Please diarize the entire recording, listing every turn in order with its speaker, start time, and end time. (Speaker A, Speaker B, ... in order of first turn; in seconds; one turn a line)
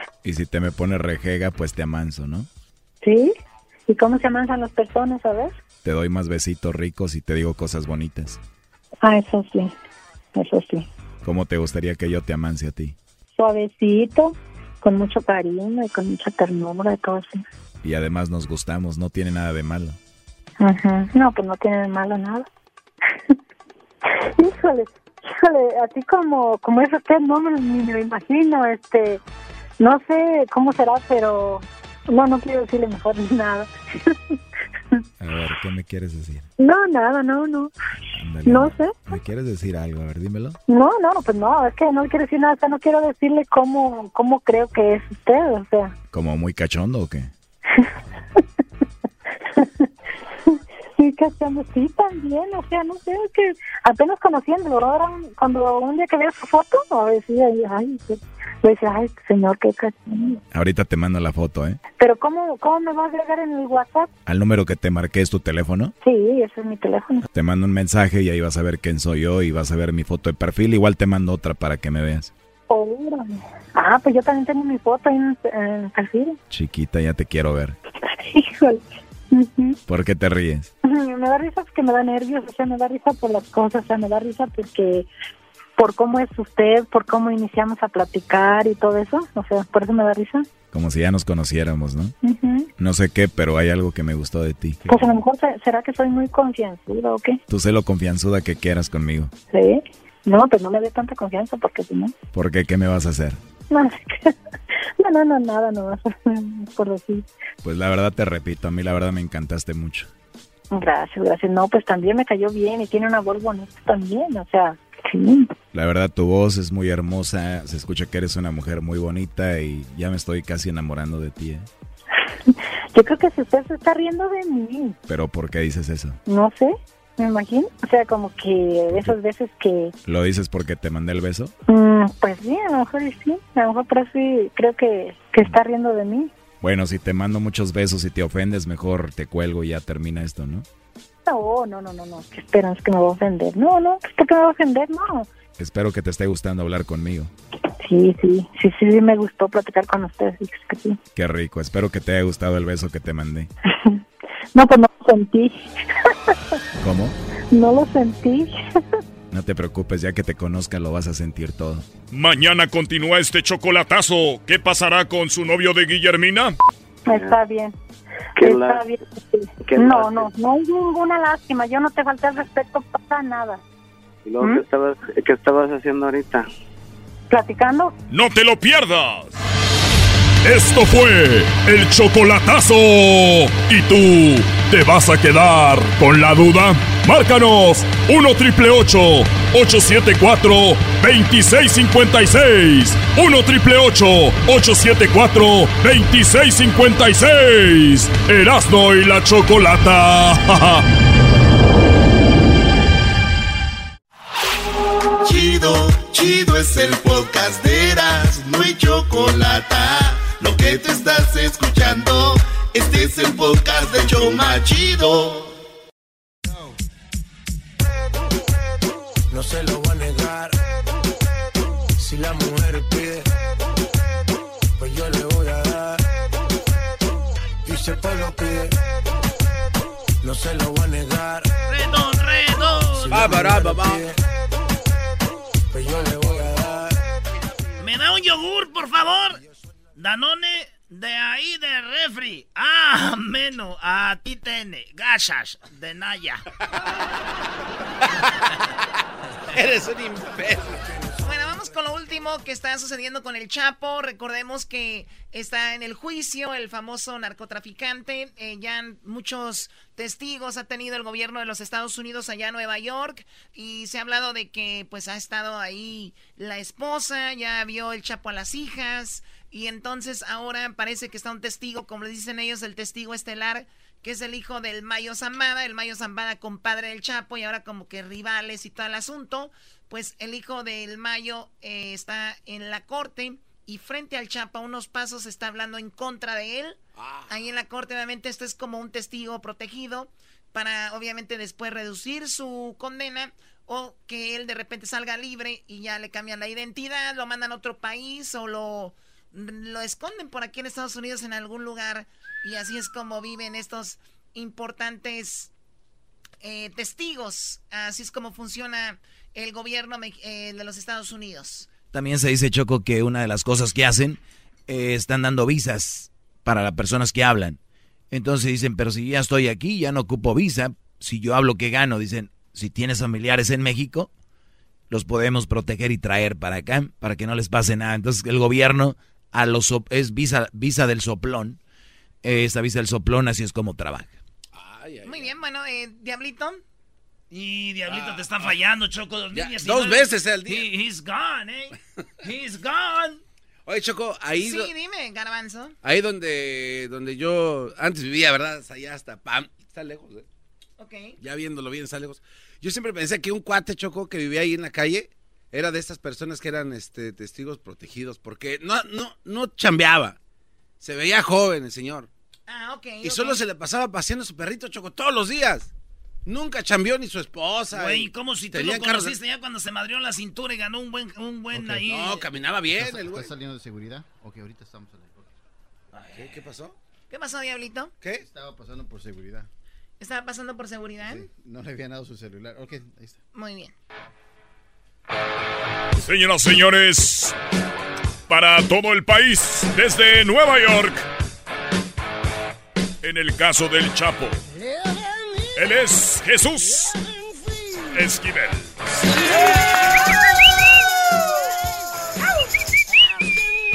Speaker A: 0.2-2.5
Speaker B: 3.0-3.3
Speaker B: 3.9-5.5
Speaker A: 5.8-8.4
Speaker B: 9.0-9.7
Speaker B: 10.4-10.9
Speaker A: 11.2-12.9
Speaker B: 13.3-17.4
Speaker A: 17.8-20.0
Speaker B: 20.6-22.5
Speaker B: 24.1-29.2
Speaker B: 29.8-34.4
Speaker A: 35.2-36.5
Speaker B: 36.6-37.7
Speaker A: 38.2-40.6
Speaker B: 38.5-39.0
Speaker B: 40.7-45.9
Speaker A: 46.1-47.3
Speaker B: 47.8-48.4
Speaker B: 49.5-49.9
Speaker B: 50.5-60.4
Speaker A: 60.5-61.8
Speaker B: 62.0-64.1
Speaker A: 64.2-65.9
Speaker B: 66.0-67.2
Speaker A: 67.3-72.3
Speaker B: 72.7-76.4
Speaker A: 76.5-77.8
Speaker B: 78.0-79.8
Speaker A: 79.9-80.7
Speaker B: 80.8-85.1
Speaker B: 85.8-90.5
Speaker A: 90.7-92.1
Speaker B: 92.2-92.7
Speaker A: 92.8-94.9
Speaker B: 94.9-97.4
Speaker A: 97.5-99.3
Speaker B: 99.5-102.1
Speaker A: 102.3-103.4
Speaker B: 103.7-104.3
Speaker B: 105.0-107.2
Speaker A: 107.6-110.1
Speaker B: 110.7-115.5
Speaker A: 115.7-121.7
Speaker B: 122.5-125.0
Speaker A: 125.1-126.2
Speaker B: 126.3-129.9
Speaker A: 128.9-129.2
Speaker A: 130.1-131.5
Speaker B: 131.7-136.3
Speaker A: 136.6-140.6
Speaker B: 141.3-145.3
Speaker A: 145.6-147.3
Speaker B: 147.8-151.0
Speaker A: 151.1-153.5
Speaker B: 154.6-156.3
Speaker A: 156.8-157.1
Speaker B: 157.5-158.8
Speaker A: 159.3-161.8
Speaker C: 162.1-166.5
Speaker B: 167.1-167.7
Speaker B: 168.4-173.6
Speaker D: 168.4-168.8
Speaker D: 169.7-170.2
Speaker D: 174.2-176.4
Speaker B: 177.3-177.9
Speaker C: 178.1-179.3
Speaker C: 180.4-200.9
Speaker E: 205.2-215.5
Speaker F: 219.3-220.6
Speaker F: 222.0-223.3
Speaker F: 224.8-226.0
Speaker F: 227.6-228.8
Speaker F: 230.2-231.5
Speaker G: 231.7-233.3
Speaker F: 232.9-234.2
Speaker H: 233.1-234.1
Speaker F: 235.7-236.9
Speaker G: 237.8-239.4
Speaker G: 239.9-246.4
Speaker H: 249.5-250.9
Speaker I: 251.2-305.5
Speaker H: 287.0-287.3
Speaker I: 306.4-311.7
Speaker A: 311.9-317.6
Speaker A: 318.1-324.1
Speaker A: 324.9-331.6
Speaker A: 332.2-334.1
Speaker H: 334.5-335.3
Speaker I: 335.0-336.6
Speaker G: 337.3-343.2
Speaker H: 337.9-338.6
Speaker H: 339.3-340.7
Speaker H: 343.6-344.7
Speaker I: 344.4-345.7
Speaker H: 345.8-350.2
Speaker I: 350.8-351.2
Speaker H: 351.2-360.2
Speaker H: 360.8-362.1
Speaker I: 362.5-363.4
Speaker H: 363.0-365.7
Speaker H: 366.2-369.2
Speaker G: 367.7-372.3
Speaker H: 371.6-373.3
Speaker J: 372.7-375.3
Speaker G: 375.9-376.4
Speaker H: 376.1-376.7
Speaker I: 377.1-377.9
Speaker J: 378.2-379.5
Speaker I: 380.0-381.2
Speaker J: 381.0-383.2
Speaker I: 383.3-383.7
Speaker C: 386.0-387.4
Speaker C: 388.3-391.1
Speaker C: 393.0-394.4
Speaker C: 395.6-396.9
Speaker C: 397.9-398.7